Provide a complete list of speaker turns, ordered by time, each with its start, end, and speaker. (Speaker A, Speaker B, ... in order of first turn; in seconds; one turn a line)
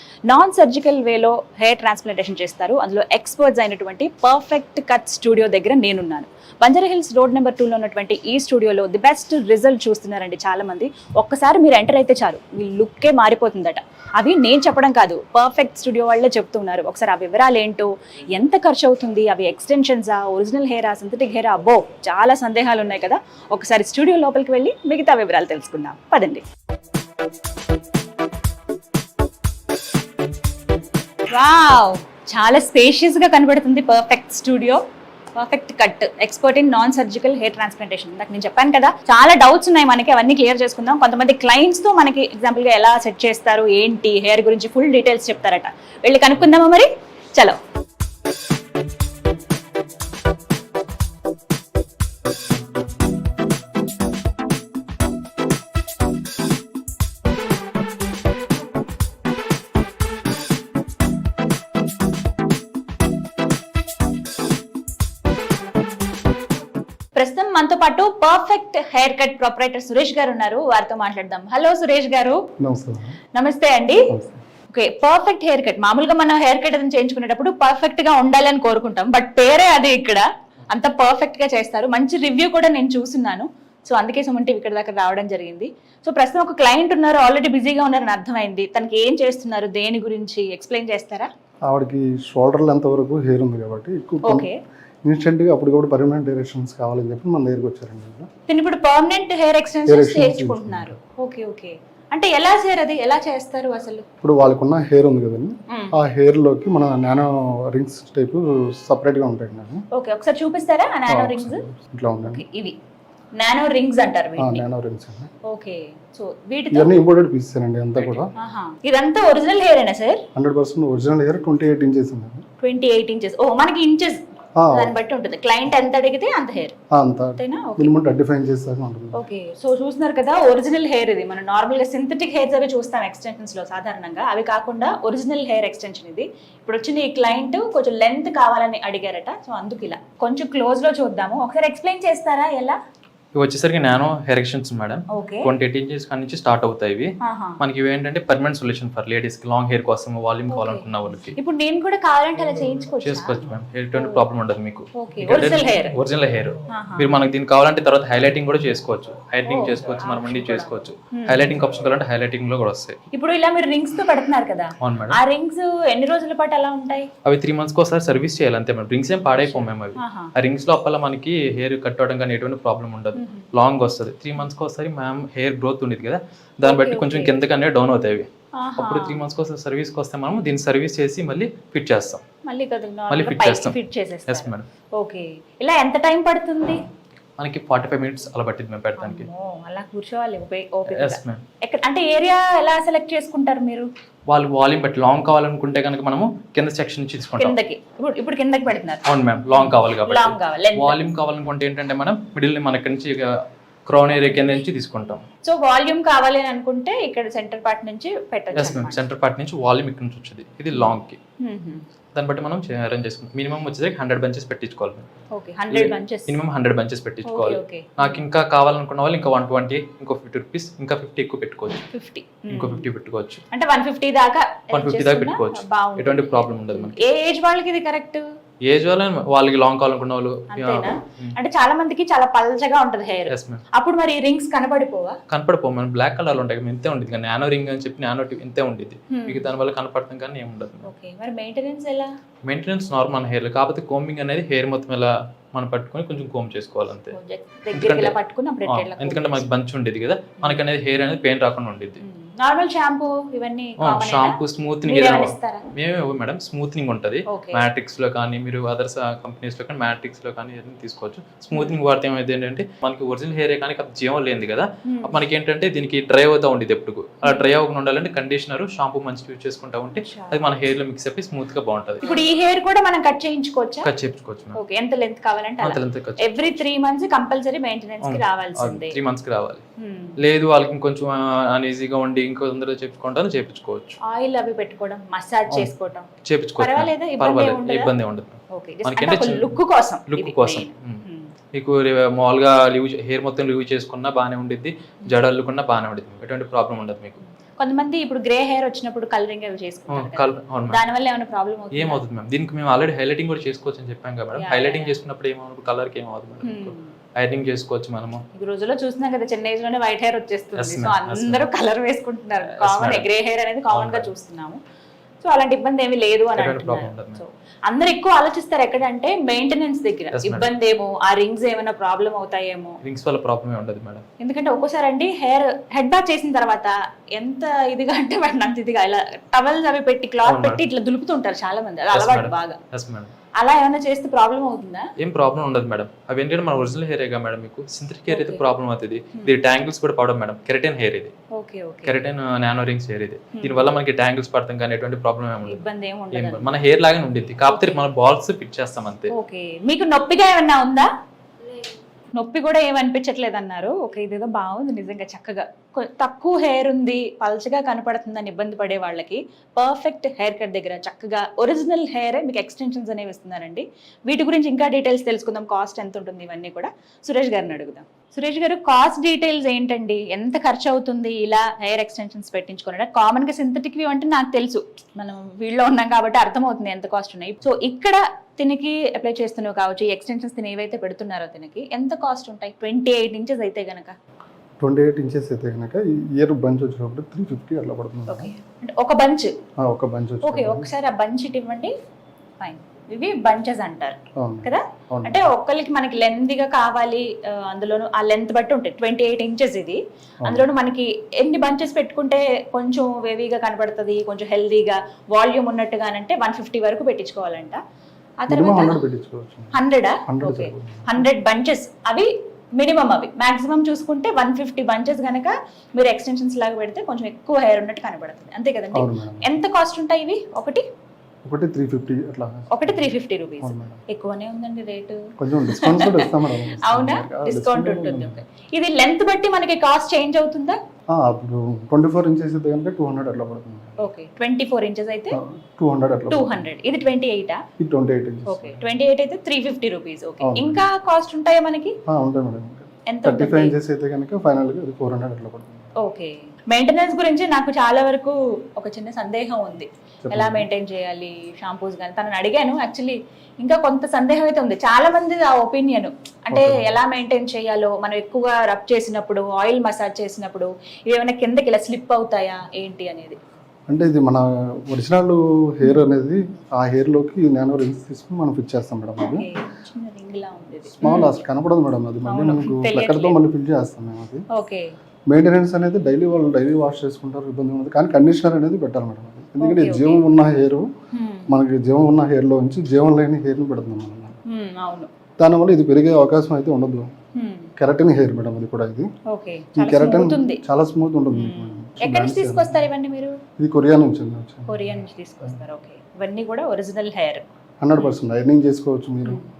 Speaker A: 0.3-26.4
Speaker A: 31.3-34.8
Speaker A: 35.4-47.6
Speaker A: 67.2-72.4
Speaker B: 72.6-73.2
Speaker A: 73.3-74.1
Speaker B: 74.1-74.4
Speaker A: 74.7-91.3
Speaker B: 91.7-94.5
Speaker A: 94.2-94.6
Speaker B: 95.0-98.3
Speaker A: 98.5-104.0
Speaker B: 99.9-101.0
Speaker B: 104.2-109.8
Speaker A: 105.7-105.9
Speaker A: 109.9-111.6
Speaker B: 111.1-112.4
Speaker A: 112.2-112.8
Speaker A: 113.3-114.6
Speaker B: 114.4-115.3
Speaker A: 115.4-117.0
Speaker B: 116.7-118.3
Speaker A: 118.3-120.2
Speaker B: 120.3-122.4
Speaker A: 122.6-126.7
Speaker B: 124.5-124.9
Speaker B: 126.9-129.2
Speaker A: 127.4-127.9
Speaker A: 129.1-142.8
Speaker C: 143.3-151.3
Speaker A: 145.1-145.5
Speaker A: 147.2-147.6
Speaker A: 150.5-150.8
Speaker A: 151.3-153.4
Speaker C: 153.0-163.0
Speaker A: 153.9-154.2
Speaker A: 154.9-155.9
Speaker A: 156.7-157.2
Speaker A: 159.4-161.5
Speaker A: 163.1-167.1
Speaker C: 164.8-165.2
Speaker C: 167.2-182.2
Speaker A: 169.4-170.3
Speaker A: 173.1-173.5
Speaker A: 176.6-177.3
Speaker A: 178.5-179.2
Speaker A: 182.4-186.8
Speaker C: 183.1-184.7
Speaker C: 187.4-189.3
Speaker A: 189.0-193.9
Speaker C: 190.9-191.4
Speaker C: 194.3-197.6
Speaker A: 197.4-201.0
Speaker C: 199.1-205.2
Speaker A: 204.1-204.5
Speaker A: 205.4-209.0
Speaker C: 208.5-211.2
Speaker A: 210.7-211.8
Speaker C: 212.1-215.1
Speaker A: 215.3-216.4
Speaker C: 215.7-221.9
Speaker A: 217.2-218.2
Speaker A: 221.9-222.8
Speaker C: 222.5-223.4
Speaker A: 223.5-228.2
Speaker C: 224.7-227.0
Speaker C: 228.6-231.3
Speaker A: 230.5-235.2
Speaker C: 233.3-233.6
Speaker C: 235.3-240.9
Speaker A: 239.1-239.5
Speaker A: 240.8-242.1
Speaker C: 242.4-247.2
Speaker A: 247.1-249.4
Speaker C: 247.7-252.0
Speaker A: 252.0-255.7
Speaker C: 253.8-272.1
Speaker A: 257.3-257.6
Speaker A: 264.8-265.1
Speaker A: 269.9-270.5
Speaker A: 272.0-273.9
Speaker C: 273.8-274.6
Speaker A: 274.6-279.0
Speaker C: 275.6-276.2
Speaker C: 278.0-279.6
Speaker A: 279.8-280.1
Speaker C: 280.2-284.0
Speaker A: 284.0-286.1
Speaker C: 286.2-297.2
Speaker A: 286.6-287.9
Speaker A: 288.5-291.3
Speaker A: 297.6-302.0
Speaker C: 299.9-300.8
Speaker C: 301.7-308.2
Speaker A: 304.4-305.0
Speaker A: 306.4-306.9
Speaker A: 308.3-314.6
Speaker C: 310.6-311.5
Speaker C: 312.6-313.1
Speaker C: 313.7-314.1
Speaker A: 315.2-322.8
Speaker C: 316.4-317.2
Speaker C: 320.1-320.5
Speaker C: 322.8-324.0
Speaker A: 324.2-332.6
Speaker C: 330.2-330.6
Speaker C: 331.9-333.1
Speaker A: 333.4-334.9
Speaker C: 335.0-341.1
Speaker A: 338.1-338.4
Speaker A: 341.3-341.9
Speaker C: 341.9-349.1
Speaker A: 343.3-343.7
Speaker A: 345.4-346.6
Speaker A: 347.5-347.8
Speaker A: 349.1-350.9
Speaker A: 352.1-383.9
Speaker B: 384.6-388.3
Speaker A: 388.1-389.3
Speaker B: 389.6-390.7
Speaker A: 390.2-391.7
Speaker A: 392.4-407.6
Speaker B: 394.1-395.3
Speaker B: 400.2-400.5
Speaker A: 408.2-408.8
Speaker B: 408.3-411.0
Speaker A: 409.5-420.6
Speaker B: 418.7-419.3
Speaker B: 421.2-423.8
Speaker A: 422.5-430.6
Speaker B: 425.2-428.2
Speaker B: 430.9-433.8
Speaker A: 433.8-435.2
Speaker B: 435.1-436.4
Speaker A: 436.1-437.4
Speaker B: 437.6-438.7
Speaker A: 438.3-441.8
Speaker B: 440.2-440.6
Speaker B: 441.9-445.7
Speaker A: 442.9-443.5
Speaker A: 445.8-463.2
Speaker B: 450.0-450.5
Speaker B: 456.3-456.7
Speaker B: 463.7-469.2
Speaker A: 465.6-466.4
Speaker A: 469.0-471.1
Speaker B: 470.8-474.2
Speaker A: 472.1-473.2
Speaker A: 474.3-474.7
Speaker B: 475.1-480.7
Speaker A: 479.4-480.0
Speaker A: 480.9-481.3
Speaker B: 481.3-484.2
Speaker A: 484.3-484.9
Speaker B: 485.2-486.9
Speaker A: 487.1-487.5
Speaker B: 487.6-488.9
Speaker A: 489.1-490.4
Speaker B: 489.6-492.7
Speaker A: 491.1-493.2
Speaker B: 493.4-495.4
Speaker A: 494.5-497.3
Speaker B: 497.6-499.2